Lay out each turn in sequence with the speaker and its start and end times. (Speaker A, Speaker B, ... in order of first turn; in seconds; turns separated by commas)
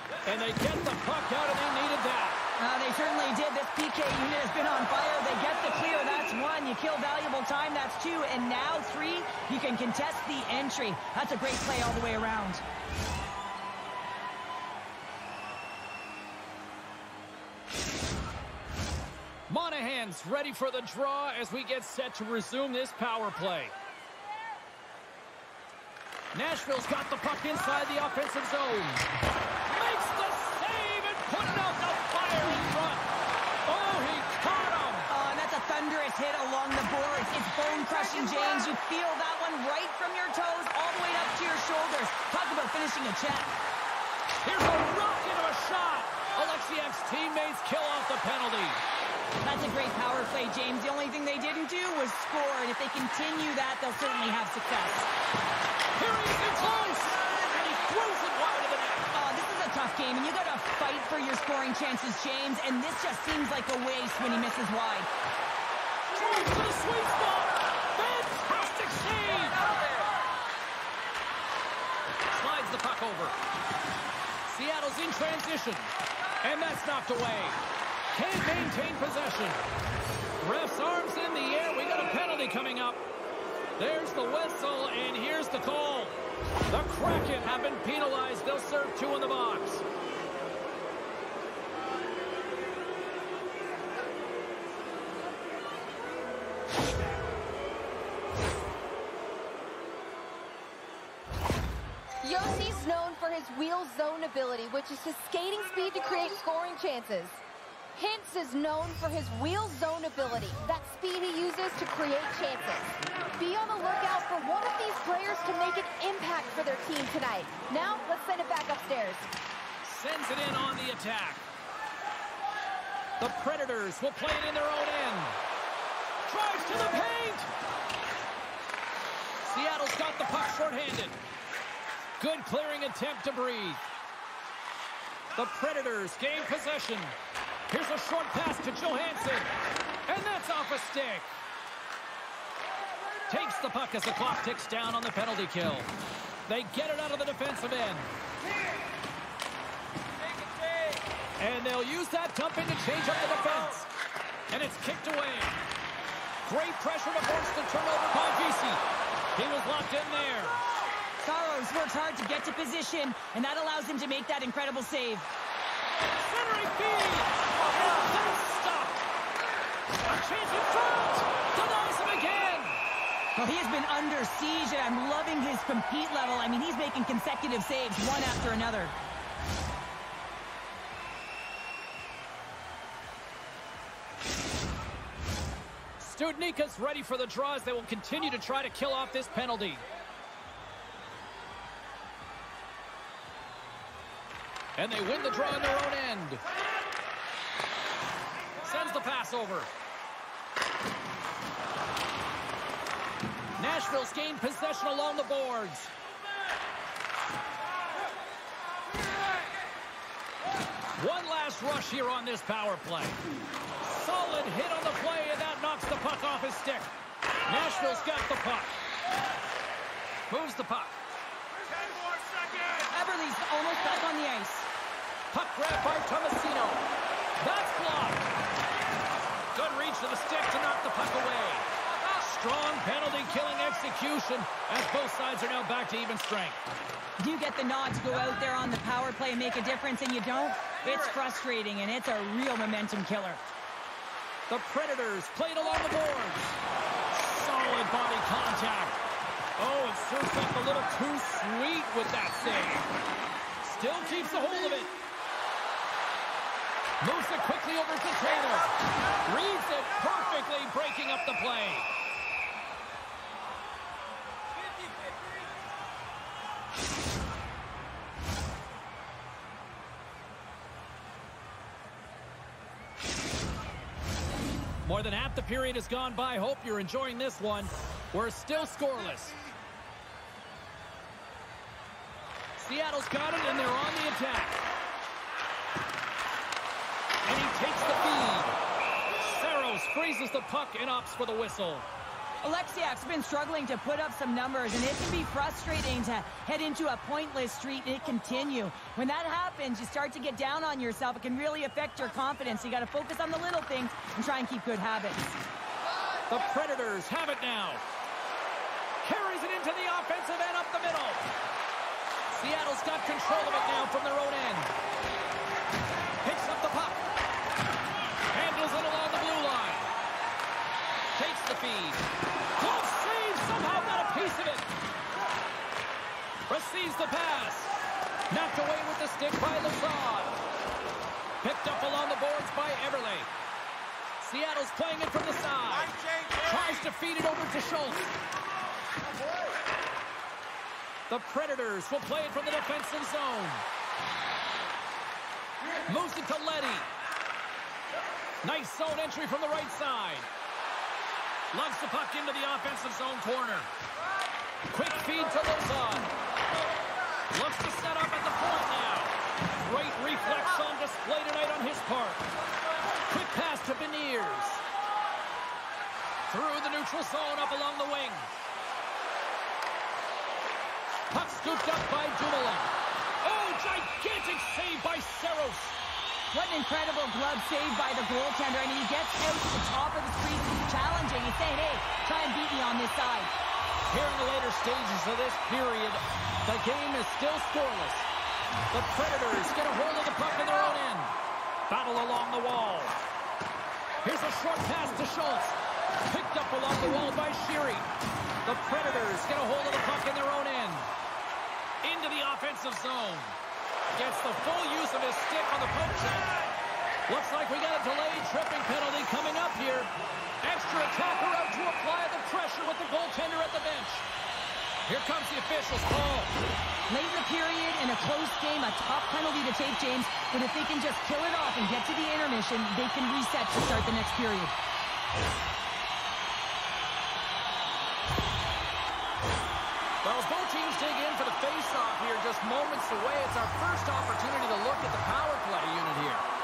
Speaker A: 0.2-2.4, Speaker B: 2.6-12.6, Speaker A: 19.5-23.7, Speaker A: 26.3-29.1, Speaker A: 29.6-33.1, Speaker A: 33.6-35.1, Speaker B: 35.1-43.5, Speaker A: 44.4-48.8, Speaker B: 49.4-55.1, Speaker A: 56.0-59.0, Speaker B: 59.1-65.1, Speaker A: 66.1-69.6, Speaker A: 72.3-73.3, Speaker A: 74.5-75.9, Speaker A: 76.4-77.6, Speaker A: 78.1-79.6, Speaker A: 80.4-83.0, Speaker A: 83.8-86.1, Speaker A: 86.7-89.8, Speaker C: 102.2-107.4, Speaker C: 107.9-119.3, Speaker A: 119.8-121.4, Speaker A: 123.2-125.4, Speaker A: 126.3-127.5, Speaker A: 129.4-131.1, Speaker A: 132.2-133.8, Speaker A: 135.3-137.2, Speaker A: 137.7-139.5, Speaker A: 140.1-141.3, Speaker A: 143.3-145.9, Speaker A: 146.5-148.1, Speaker A: 151.4-153.9, Speaker A: 154.5-155.6, Speaker A: 156.4-158.8, Speaker A: 159.3-160.6, Speaker B: 161.2-165.3, Speaker A: 166.2-169.0, Speaker A: 170.1-172.8, Speaker B: 173.3-178.9, Speaker A: 186.0-189.8, Speaker A: 194.8-196.4, Speaker A: 198.6-199.7, Speaker A: 203.6-205.9, Speaker A: 211.0-213.2, Speaker A: 213.8-216.9, Speaker A: 217.4-218.7, Speaker A: 220.3-220.9, Speaker B: 222.9-224.7, Speaker A: 225.3-226.8, Speaker A: 227.4-228.2, Speaker A: 229.5-236.6, Speaker B: 237.2-243.4, Speaker A: 244.5-246.6, Speaker A: 247.1-249.0, Speaker A: 249.6-252.8, Speaker A: 253.6-254.9, Speaker A: 257.0-258.7, Speaker A: 259.2-261.9, Speaker A: 274.8-279.4, Speaker A: 282.6-284.6, Speaker A: 287.2-288.5, Speaker A: 289.2-291.9, Speaker B: 292.4-305.4, Speaker A: 306.3-307.8, Speaker A: 309.0-311.2, Speaker A: 312.3-314.7, Speaker A: 316.2-317.0, Speaker A: 318.3-319.9, Speaker A: 321.1-322.0, Speaker A: 322.6-324.7, Speaker A: 326.5-327.8, Speaker A: 328.3-330.4, Speaker A: 331.4-333.3, Speaker A: 334.2-338.1, Speaker A: 341.1-343.6, Speaker A: 345.9-346.9, Speaker A: 348.4-350.3, Speaker A: 351.5-353.7, Speaker A: 354.7-356.1, Speaker A: 357.3-362.2, Speaker A: 363.1-364.6, Speaker A: 366.3-368.3, Speaker A: 371.1-372.7, Speaker A: 373.2-375.8, Speaker B: 376.3-383.3, Speaker A: 383.9-388.1, Speaker A: 388.7-391.1, Speaker A: 391.7-392.9, Speaker A: 394.0-397.9, Speaker A: 398.4-400.9, Speaker A: 401.8-403.4, Speaker A: 403.9-406.4, Speaker A: 407.1-409.9, Speaker A: 410.4-414.0, Speaker A: 414.9-416.3, Speaker B: 416.9-424.5, Speaker A: 430.0-436.2